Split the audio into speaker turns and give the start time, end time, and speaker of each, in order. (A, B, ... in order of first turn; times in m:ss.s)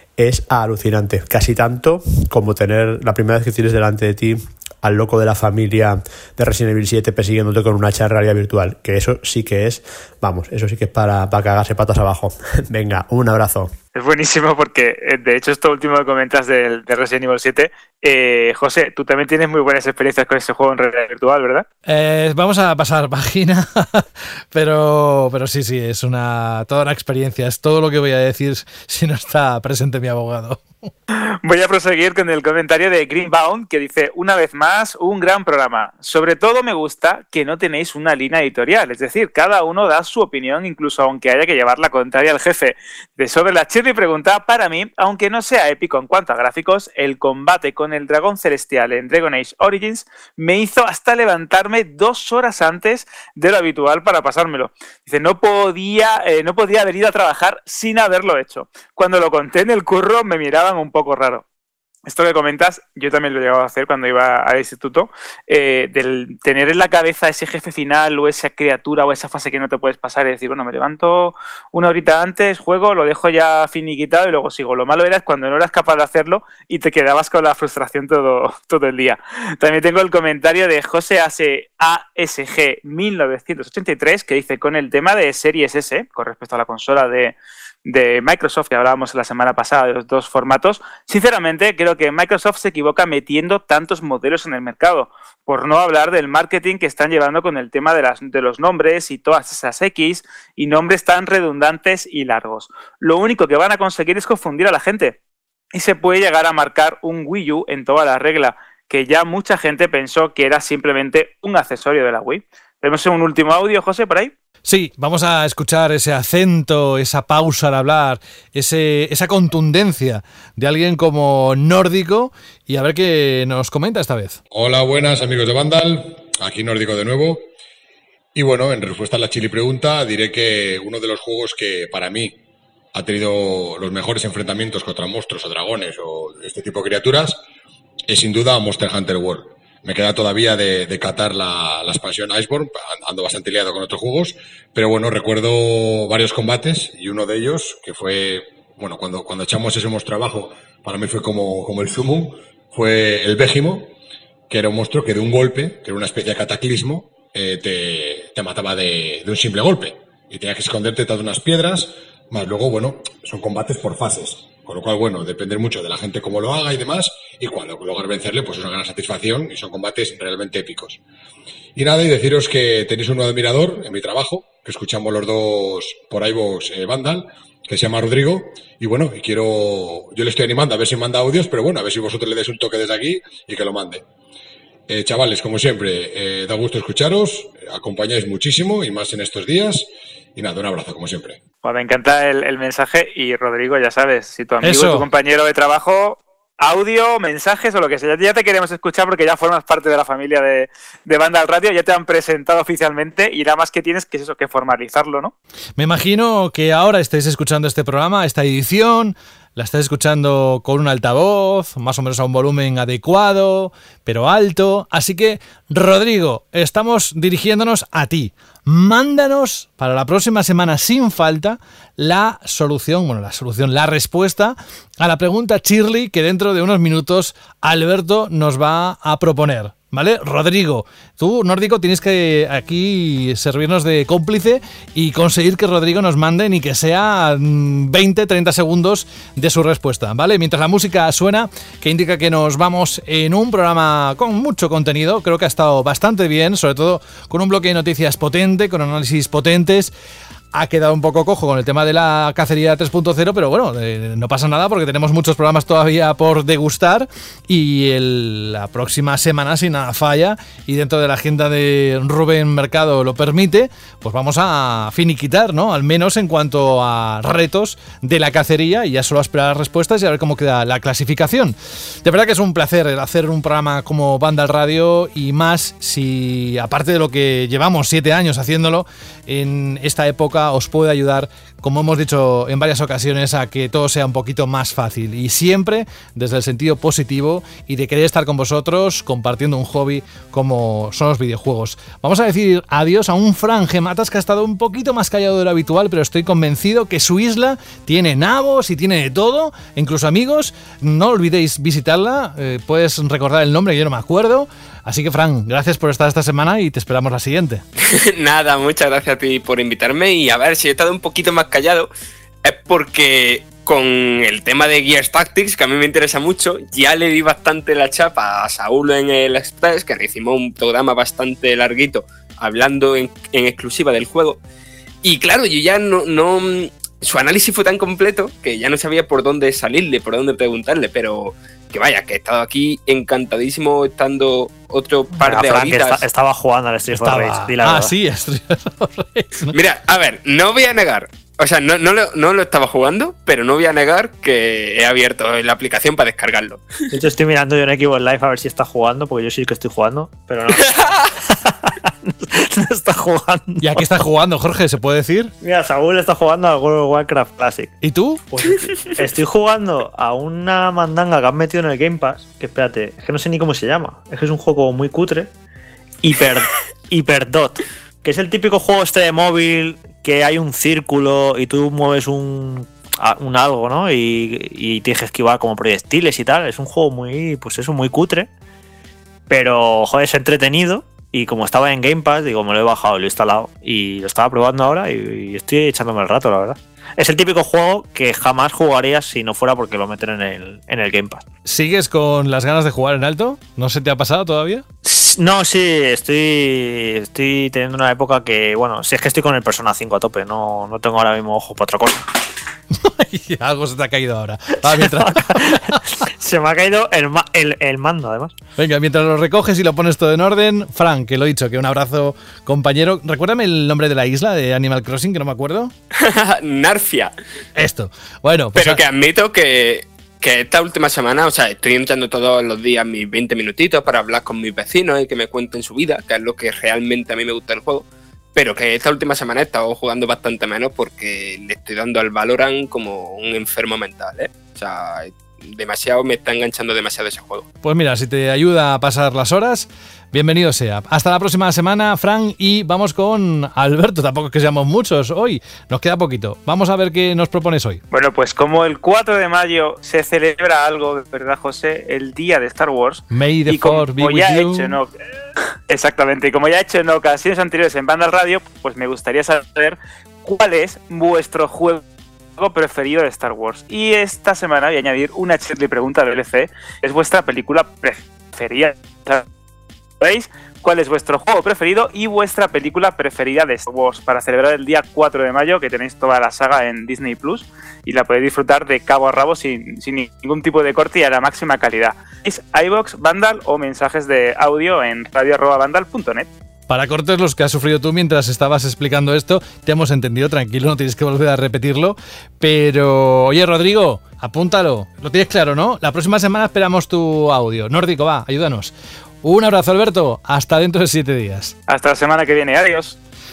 0:00.2-0:13.7 A
0:14.0-0:21.6 B
0:21.9-0:30.9 C
0:31.4-1:01.4 B
1:02.1-1:45.2 B
1:45.7-1:54.3 B
1:54.6-2:04.4 C
2:04.5-2:07.4 D
2:08.4-2:12.4 D
2:12.9-2:17.4 D
2:18.1-2:33.9 D
2:34.5-2:51.0 D
2:51.8-3:04.0 D
3:04.9-3:11.4 D
3:11.6-3:25.3 B
3:14.6-3:15.0 C
3:25.8-4:09.9 C
4:10.5-5:07.6 C
5:07.9-5:11.9 E
5:12.4-5:24.4 E
5:25.0-5:36.0 E
5:35.2-5:38.0 F
5:36.9-5:39.6 C
5:39.5-5:46.7 E
5:46.9-5:53.9 F
5:50.6-5:51.0 E
5:53.6-5:55.3 C
5:55.4-5:57.8 F
5:57.8-5:58.2 C
5:58.3-6:05.3 F
6:06.0-6:18.3 F
6:19.3-6:31.2 F
6:31.4-6:34.6 C
6:34.8-6:42.0 F
6:42.8-6:45.8 C
6:44.6-6:48.3 F
6:48.6-6:55.7 C
6:56.0-6:57.1 E
6:57.6-6:58.8 C
6:58.6-7:17.5 E
7:17.6-7:27.8 C
7:27.9-7:34.9 B
7:33.1-7:34.8 C
7:35.7-7:41.8 B
7:42.4-7:49.2 B
7:50.0-8:06.3 B
8:06.7-8:18.7 C
8:19.2-8:21.6 C
8:21.7-8:23.0 B